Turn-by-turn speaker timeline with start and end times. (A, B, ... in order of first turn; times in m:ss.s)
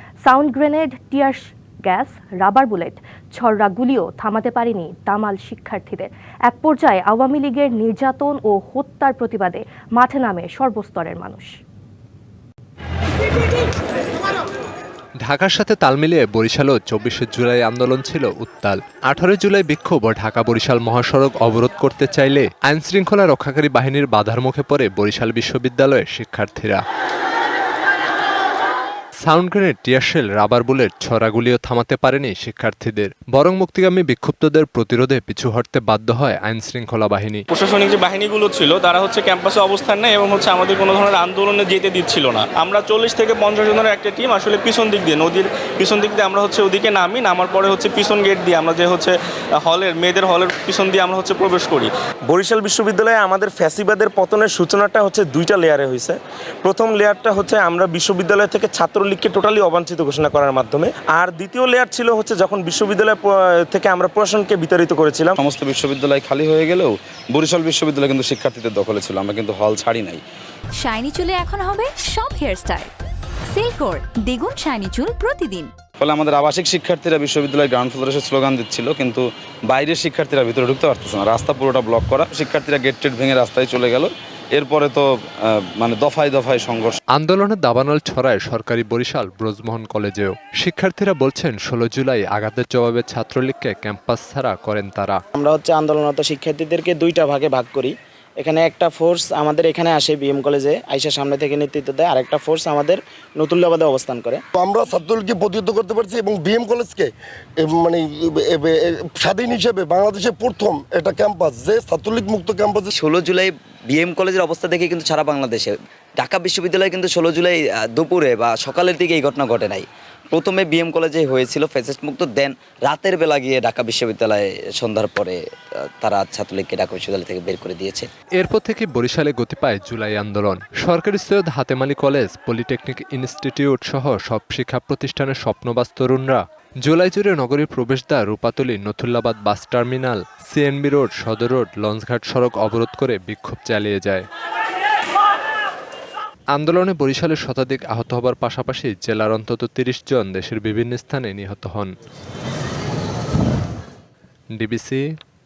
0:00.2-0:11.5 A
0:15.2-0:26.8 B
0:29.2-0:37.4 B
0:37.5-0:51.9 C
0:52.3-1:05.4 D
1:05.4-1:10.2 E
1:10.8-1:12.9 F
1:13.5-1:15.7 F
1:16.0-1:27.0 E
1:27.1-1:35.2 B
1:35.4-1:44.4 G
1:44.6-1:52.9 H
1:52.9-2:05.4 I
2:06.0-2:08.1 I
2:08.4-2:24.3 B
2:26.5-2:31.9 B
2:34.5-2:35.0 B